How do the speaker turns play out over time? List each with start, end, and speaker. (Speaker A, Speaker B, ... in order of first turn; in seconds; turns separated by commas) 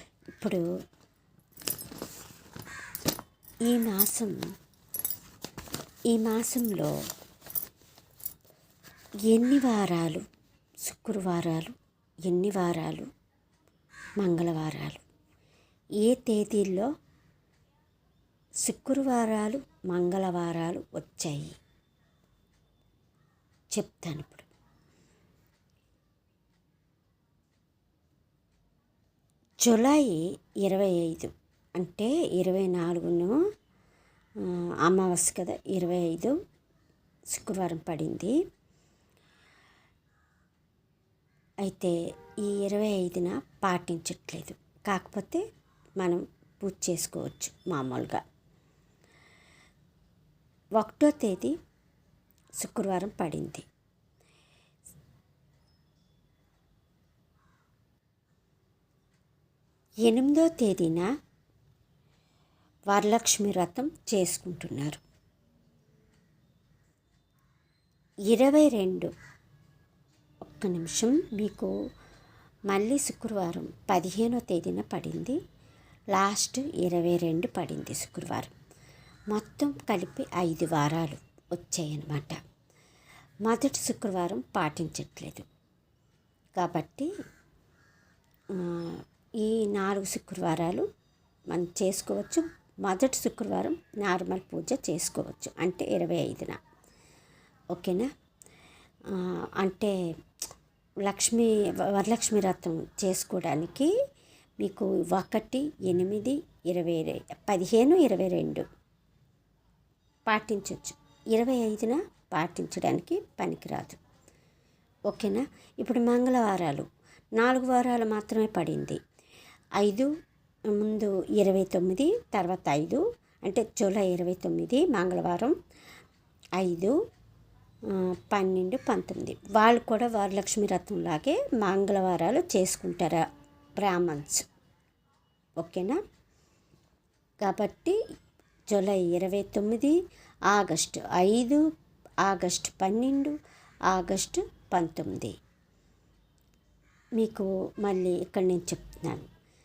Speaker A: 0.3-0.6, Speaker A: 3.7-4.3, Speaker A: 6.1-6.9, Speaker A: 9.3-10.2, Speaker A: 10.8-13.1, Speaker A: 14.2-15.0, Speaker A: 16.0-16.9, Speaker A: 18.6-21.6, Speaker A: 23.7-24.5, Speaker A: 29.6-33.4, Speaker A: 34.4-36.3, Speaker A: 37.3-38.4, Speaker A: 41.6-45.4, Speaker A: 46.0-48.2, Speaker A: 50.8-51.5, Speaker A: 52.6-53.6, Speaker A: 60.1-61.1, Speaker A: 62.9-65.0, Speaker A: 68.3-69.1, Speaker A: 70.4-71.7, Speaker A: 72.7-75.4, Speaker A: 76.1-78.5, Speaker A: 79.3-82.4, Speaker A: 83.4-85.4, Speaker A: 86.6-87.1, Speaker A: 88.5-90.8, Speaker A: 91.5-96.6, Speaker A: 97.7-98.1, Speaker A: 99.1-100.0, Speaker A: 101.0-103.9, Speaker A: 104.6-108.6, Speaker A: 110.3-114.0, Speaker A: 115.1-119.0, Speaker A: 119.8-120.1, Speaker A: 120.7-125.5, Speaker A: 126.6-127.0, Speaker A: 127.9-133.2, Speaker A: 133.8-134.4, Speaker A: 135.6-136.0, Speaker A: 137.4-138.0, Speaker A: 138.7-139.9, Speaker A: 140.5-141.6, Speaker A: 142.2-143.3, Speaker A: 143.9-145.4, Speaker A: 147.2-149.3